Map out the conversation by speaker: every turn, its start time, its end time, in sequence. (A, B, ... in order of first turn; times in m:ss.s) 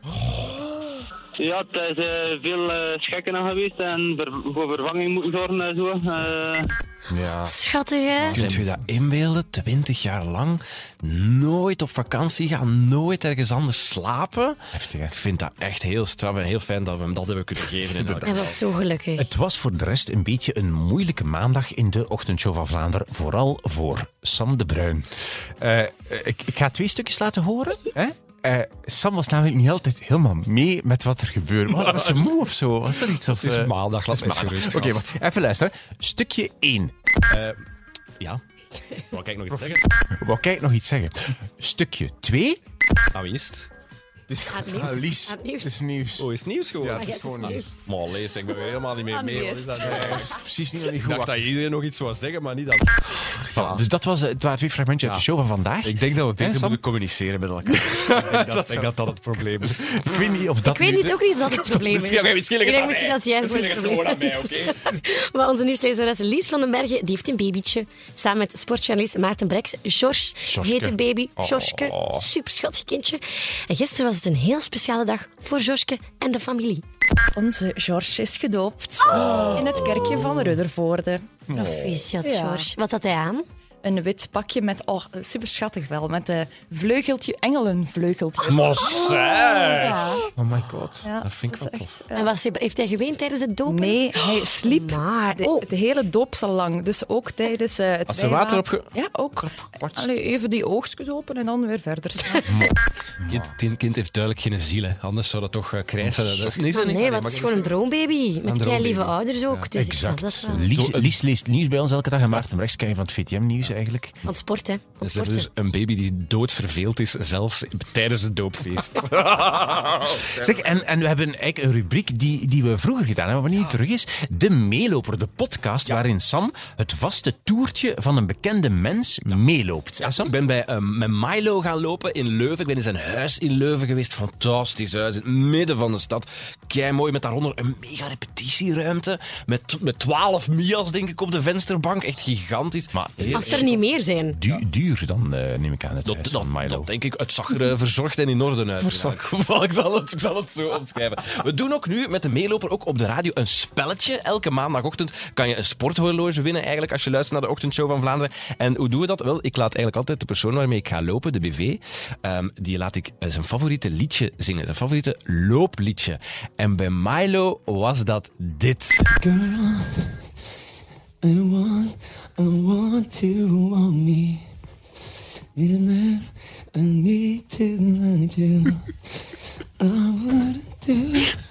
0:00.1-0:00.9 A
0:01.4-0:06.7 B
0:07.1-0:07.6 A
0:07.4-0:08.4 C
0:08.2-0:08.8 A
0:08.3-0:14.6 D
0:14.7-0:15.1 A
0:15.1-0:18.6 D
0:17.8-0:18.6 A
0:18.2-0:19.3 C
0:19.2-0:36.9 A
0:31.7-0:32.3 D
0:33.2-0:35.1 D
0:37.3-0:37.6 D
0:39.1-0:39.8 D
0:39.5-0:42.6 A
0:43.1-0:43.7 D
0:44.3-0:47.7 A
0:44.5-0:45.8 C
0:46.2-0:53.8 D
0:46.9-0:47.9 C
0:49.3-0:49.7 E
0:49.8-0:51.5 A
0:53.5-0:56.8 A
0:55.8-1:00.4 D
0:57.7-1:01.8 A
1:00.6-1:16.8 C
1:01.6-1:04.9 D
1:10.5-1:12.2 A
1:17.4-1:21.2 E
1:19.1-1:19.7 A
1:19.1-1:19.6 D
1:21.5-1:22.0 A
1:21.5-1:23.4 C
1:22.2-1:22.7 E
1:23.8-1:30.2 E
1:28.4-1:30.2 D
1:30.4-1:31.1 A
1:31.0-1:32.3 E
1:31.2-1:31.9 D
1:32.1-1:35.6 C
1:33.7-1:42.5 E
1:38.1-1:38.9 D
1:39.4-1:40.1 A
1:42.4-1:43.5 A
1:43.3-1:47.8 D
1:46.0-1:46.6 A
1:46.7-1:50.7 C
1:48.4-1:49.7 D
1:49.7-1:54.2 A
1:50.7-1:51.2 D
1:54.2-1:55.5 C
1:55.0-2:00.8 D
2:00.2-2:10.3 A
2:10.0-2:23.8 D
2:22.9-2:23.7 A
2:23.3-2:24.4 C
2:24.3-2:26.9 A
2:26.0-2:49.1 D
2:28.8-2:29.2 A
2:49.2-2:50.2 F
2:51.2-2:54.5 F
2:55.6-2:58.9 F
2:59.8-3:01.4 F